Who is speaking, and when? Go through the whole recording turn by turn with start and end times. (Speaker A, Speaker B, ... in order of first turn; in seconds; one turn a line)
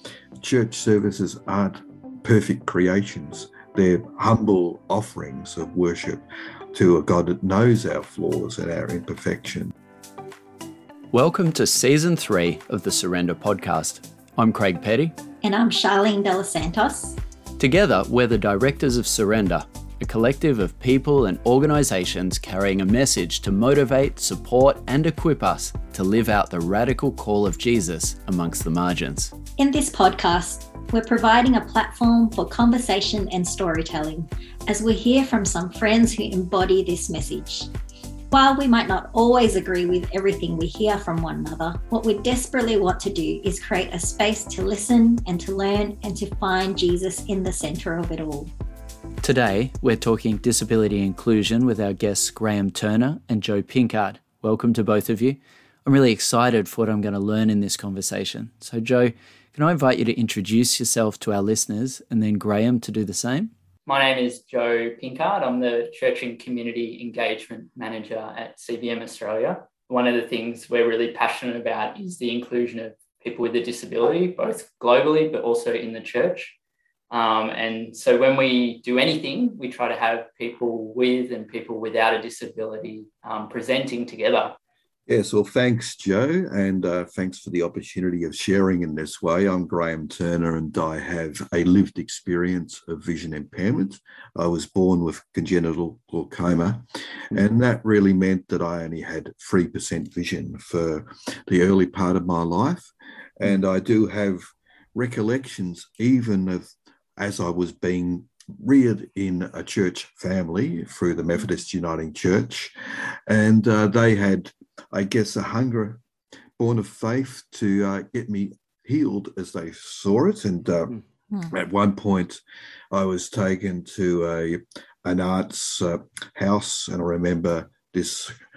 Speaker A: 0.4-6.2
Speaker A: 6.7-9.7
Speaker B: 11.1-15.1
Speaker C: 15.4-17.2
Speaker B: 17.6-29.3
Speaker C: 29.6-37.7
Speaker C: 38.3-48.5
Speaker B: 49.2-63.5
Speaker D: 63.9-76.6
Speaker D: 77.1-84.6
Speaker A: 85.1-104.4
Speaker A: 104.9-112.7
Speaker A: 113.3-116.0
Speaker A: 116.6-121.0
Speaker A: 121.5-128.3